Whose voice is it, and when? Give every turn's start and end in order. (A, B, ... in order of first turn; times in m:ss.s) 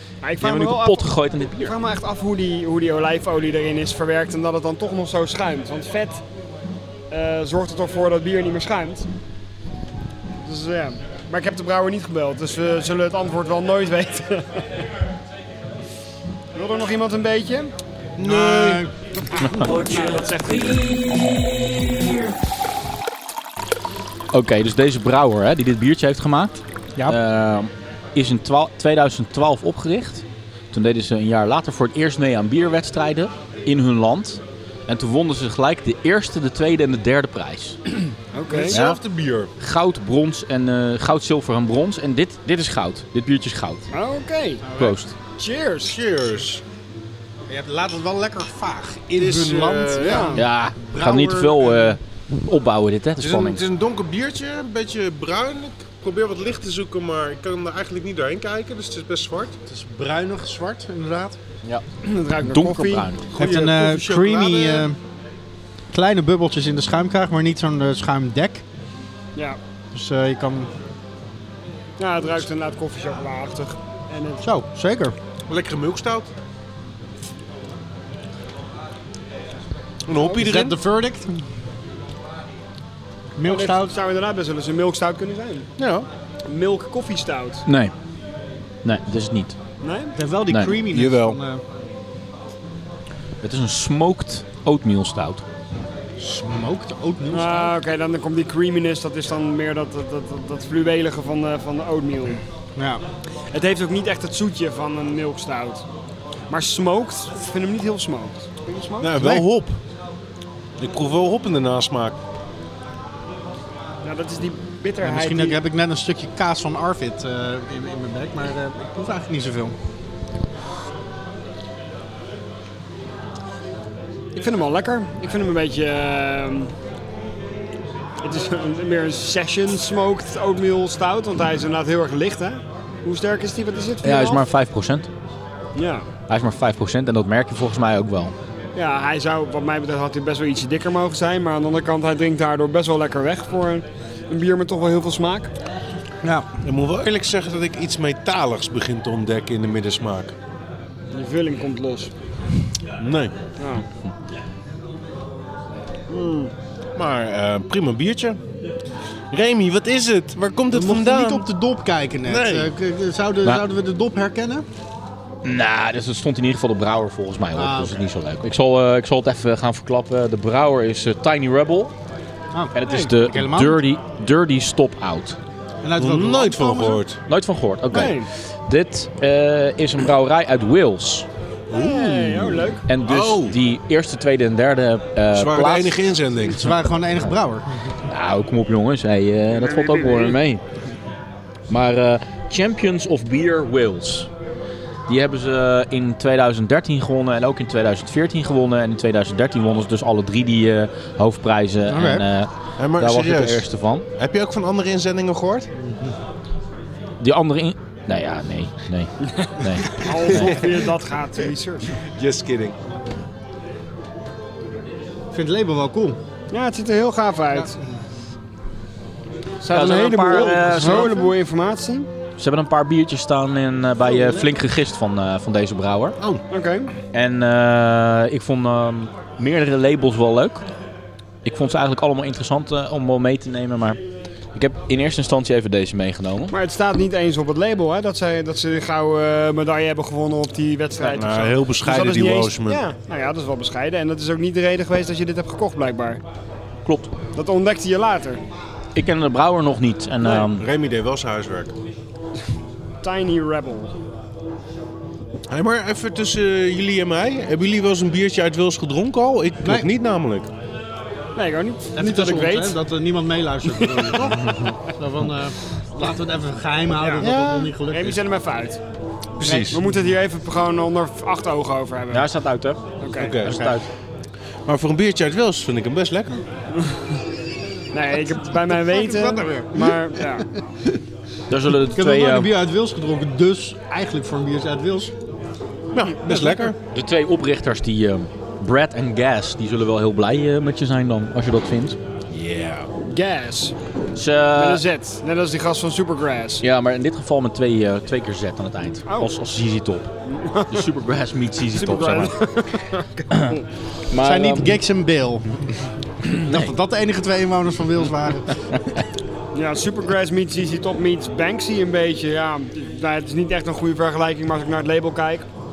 0:00.2-0:06.2 A
0:00.4-0:01.8 B
0:07.1-0:09.1 A
0:10.4-0:14.7 A
0:16.5-0:17.7 A
0:18.2-0:18.8 C
0:18.2-0:19.6 D
0:19.4-0:22.1 B
0:19.6-0:20.6 A
0:24.3-0:37.8 B
0:38.3-0:38.8 A
0:38.5-0:39.5 C
0:38.7-0:39.0 B
0:39.6-0:43.8 B
0:43.9-0:44.6 A
0:44.6-0:44.9 D
0:44.8-0:45.1 B
0:45.4-0:46.0 A
0:45.8-0:46.6 C
0:47.5-0:52.0 D
0:49.1-0:50.4 C
0:50.0-0:50.4 A
0:50.4-0:53.6 B
0:53.2-0:59.6 C
0:59.7-1:01.4 D
1:02.0-1:03.1 A
1:02.4-1:03.3 B
1:03.3-1:04.9 C
1:03.3-1:05.0 D
1:05.9-1:08.6 D
1:09.9-1:10.7 D
1:12.0-1:14.4 A
1:14.4-1:15.1 D
1:15.5-1:16.3 C
1:20.0-1:20.8 C
1:20.4-1:21.4 D
1:23.4-1:23.9 D
1:23.4-1:25.7 A
1:25.8-1:26.1 C
1:26.5-1:27.6 A
1:27.6-1:27.9 B
1:28.8-1:29.6 B
1:29.8-1:30.1 A
1:30.1-1:31.6 D
1:30.5-1:30.8 B
1:30.9-1:31.4 C
1:33.4-1:35.4 B
1:36.2-1:37.7 D
1:37.3-1:42.4 A
1:42.8-1:43.0 D
1:43.5-1:45.8 A
1:46.5-1:49.1 A
1:49.0-1:49.8 C
1:49.2-1:49.5 D
1:50.8-1:52.2 C
1:54.0-1:55.6 A
1:55.0-1:59.7 D
2:04.3-2:06.7 A
2:08.2-2:14.4 A
2:14.0-2:15.1 B
2:15.8-2:16.1 A
2:16.3-2:18.3 B
2:18.8-2:25.5 A
2:26.6-2:30.3 C
2:31.1-2:32.1 A
2:33.0-2:33.3 C
2:33.6-2:33.8 A
2:36.1-2:36.5 A
2:37.0-2:38.4 C
2:39.3-2:41.5 C
2:40.7-2:44.6 D
2:42.2-2:42.7 C
2:45.4-2:51.9 B
2:47.5-2:48.1 D
2:52.5-2:53.8 D
2:52.7-2:55.4 B
2:55.8-2:57.0 D
2:56.0-2:57.2 C
2:57.3-3:01.2 B
2:57.9-2:58.3 A
3:01.7-3:03.6 C
3:01.7-3:02.8 A
3:02.9-3:06.0 B
3:05.3-3:06.7 C
3:06.5-3:07.7 D
3:08.1-3:10.6 B
3:09.5-3:10.4 A
3:11.7-3:14.3 B
3:15.1-3:24.0 B
3:21.9-3:22.2 D
3:22.8-3:25.7 C
3:25.8-3:26.1 D
3:27.2-3:30.6 B
3:29.4-3:31.9 A
3:32.0-3:32.8 C
3:35.3-3:36.2 D
3:36.5-3:37.7 A
3:39.6-3:41.1 B
3:39.7-3:42.1 A
3:40.4-3:41.3 D
3:42.4-3:46.2 B
3:44.0-3:44.5 D
3:46.5-3:46.9 A
3:47.1-3:50.6 B
3:51.4-3:54.0 B
3:54.5-3:56.5 B
3:56.5-4:06.2 A
4:01.0-4:02.8 C
4:06.8-4:07.1 B
4:07.3-4:08.4 A
4:08.9-4:10.6 B
4:10.2-4:10.5 A
4:10.6-4:11.7 C
4:13.0-4:13.9 A
4:15.5-4:20.5 C
4:19.6-4:19.9 D
4:21.4-4:22.8 A
4:21.9-4:28.2 D
4:23.8-4:24.4 A
4:27.0-4:27.3 A
4:27.2-4:27.7 C
4:27.9-4:28.8 A
4:29.4-4:29.8 C
4:29.4-4:29.8 D
4:29.7-4:32.3 A
4:32.1-4:32.8 B
4:33.0-4:33.4 A
4:33.2-4:33.6 C
4:33.4-4:33.8 B
4:33.4-4:33.8 D
4:34.7-4:36.4 C
4:37.9-4:40.5 A
4:38.7-4:41.0 D
4:41.5-4:42.5 B
4:41.9-4:45.1 D
4:45.9-4:46.8 C
4:46.3-4:46.6 D
4:46.8-4:52.0 B
4:52.3-4:52.9 C
4:53.1-4:53.7 A
4:54.1-4:54.8 B
4:54.6-4:56.6 A
4:56.6-5:00.1 B
5:00.3-5:00.8 A
5:00.7-5:02.4 B
5:01.7-5:03.6 A
5:03.3-5:03.6 B
5:04.1-5:04.7 B
5:04.2-5:05.6 D
5:06.3-5:06.7 B
5:06.4-5:08.5 D
5:09.5-5:15.4 A